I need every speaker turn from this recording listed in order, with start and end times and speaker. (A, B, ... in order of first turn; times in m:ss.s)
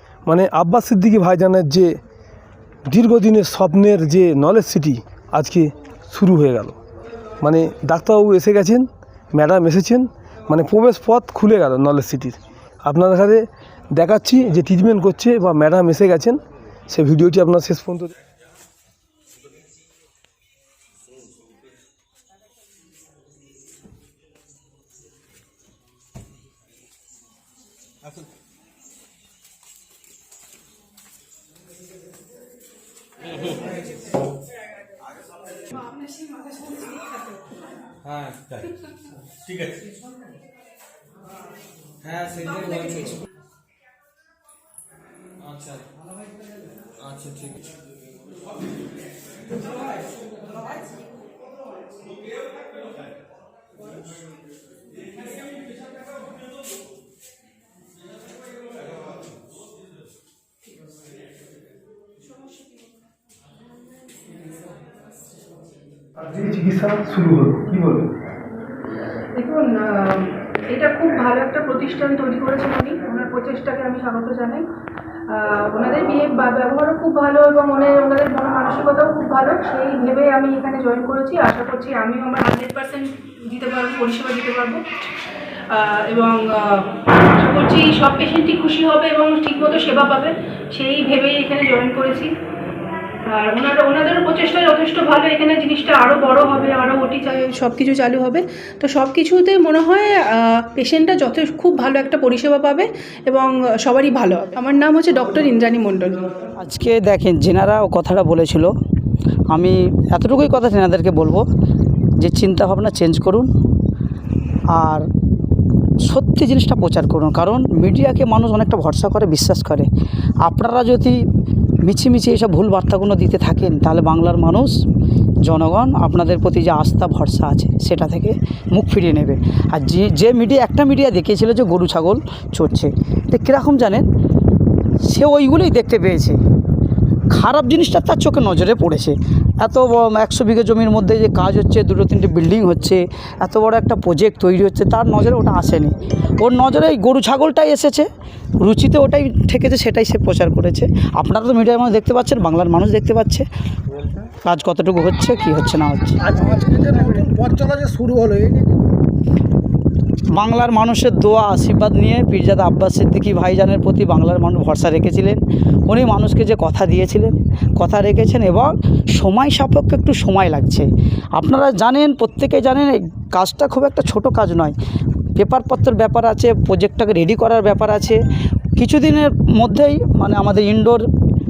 0:00.3-0:02.0 A
0:02.9-0:06.8 A
0:07.4-0:18.1 A
0:35.8-0:37.1 B
0:38.0-0:38.6 C
0:42.0-0:43.2 C
0:45.5-0:45.8 C
0:47.0-0:47.5 C
1:06.2-1:08.1 A
1:09.4-1:14.7 B
1:15.3-1:24.8 B
1:25.7-1:32.3 B
1:33.2-1:46.3 B
1:46.6-1:48.7 D
1:49.5-1:51.5 D
1:52.2-1:53.5 D
1:54.7-1:55.1 D
1:56.0-1:59.9 D
2:00.4-2:01.2 D
2:01.8-2:04.8 D
2:05.4-2:14.1 D
2:15.0-2:16.4 D
2:17.3-2:28.1 D
2:28.6-2:33.5 D
2:34.4-2:36.3 D
2:36.2-2:38.9 E
2:40.3-2:54.8 D
2:55.4-2:58.2 D
2:58.8-3:01.1 D